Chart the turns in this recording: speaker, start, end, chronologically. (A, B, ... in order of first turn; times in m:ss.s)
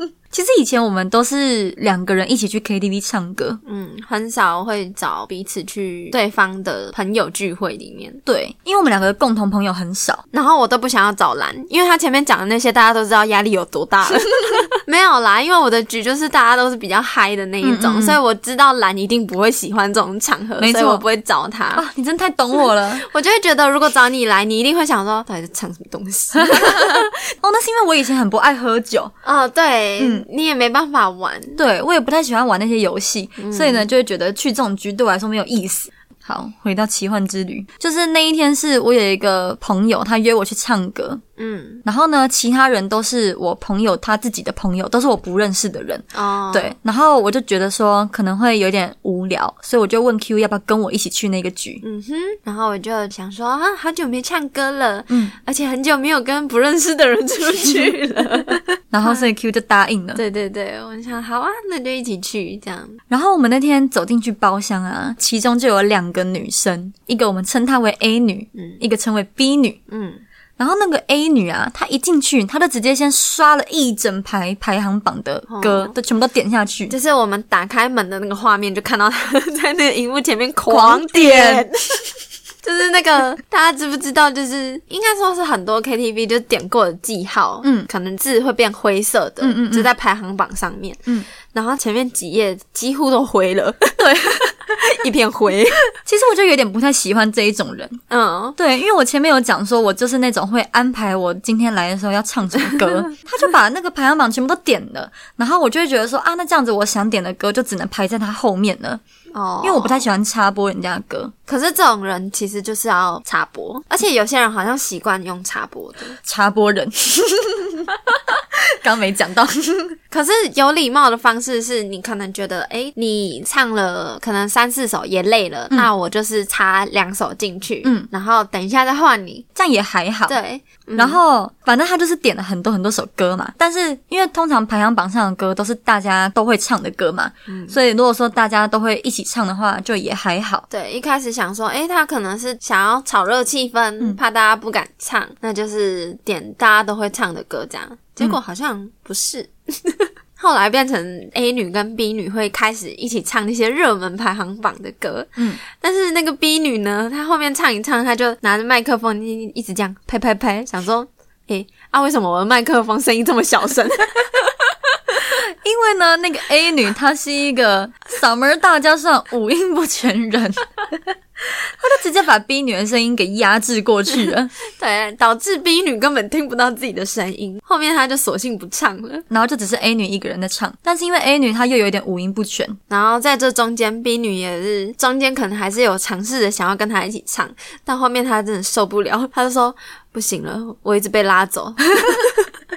0:00.3-0:03.6 A
0:03.6-0:08.2 B
0:08.3-0:10.2 A
0:10.3-0:21.8 B
0:17.6-0:18.2 A
0:20.6-0:21.0 A
0:21.7-0:23.0 A
0:22.5-0:27.1 B
0:26.3-0:29.2 A
0:29.2-0:31.6 B
0:30.0-0:30.3 A
0:31.6-0:41.2 A
0:33.4-0:33.9 B
0:41.4-0:41.8 B
0:41.8-0:51.8 A
0:46.1-0:46.8 B
0:51.8-0:59.3 B
0:55.1-0:55.4 A
0:58.6-1:00.2 A
1:00.2-1:03.0 B
1:03.1-1:09.8 A
1:08.6-1:08.8 B
1:09.9-1:10.2 B
1:10.6-1:17.0 A
1:15.5-1:16.0 B
1:16.9-1:34.0 B
1:20.7-1:21.7 A
1:27.6-1:27.9 A
1:29.4-1:29.9 A
1:34.0-1:34.8 A
1:34.8-1:35.8 B
1:36.0-1:38.0 A
1:38.1-1:38.6 B
1:38.6-1:49.0 A
1:49.3-1:50.1 B
1:49.6-1:51.3 A
1:51.5-1:56.2 B
1:56.2-2:00.0 A
2:00.1-2:09.5 B
2:09.6-2:10.4 A
2:10.3-2:11.2 B
2:11.0-2:20.6 A
2:17.5-2:17.8 B
2:20.7-2:44.8 B
2:45.6-2:54.5 A
2:54.6-2:59.3 B
2:59.3-3:02.8 A
3:02.9-3:12.4 B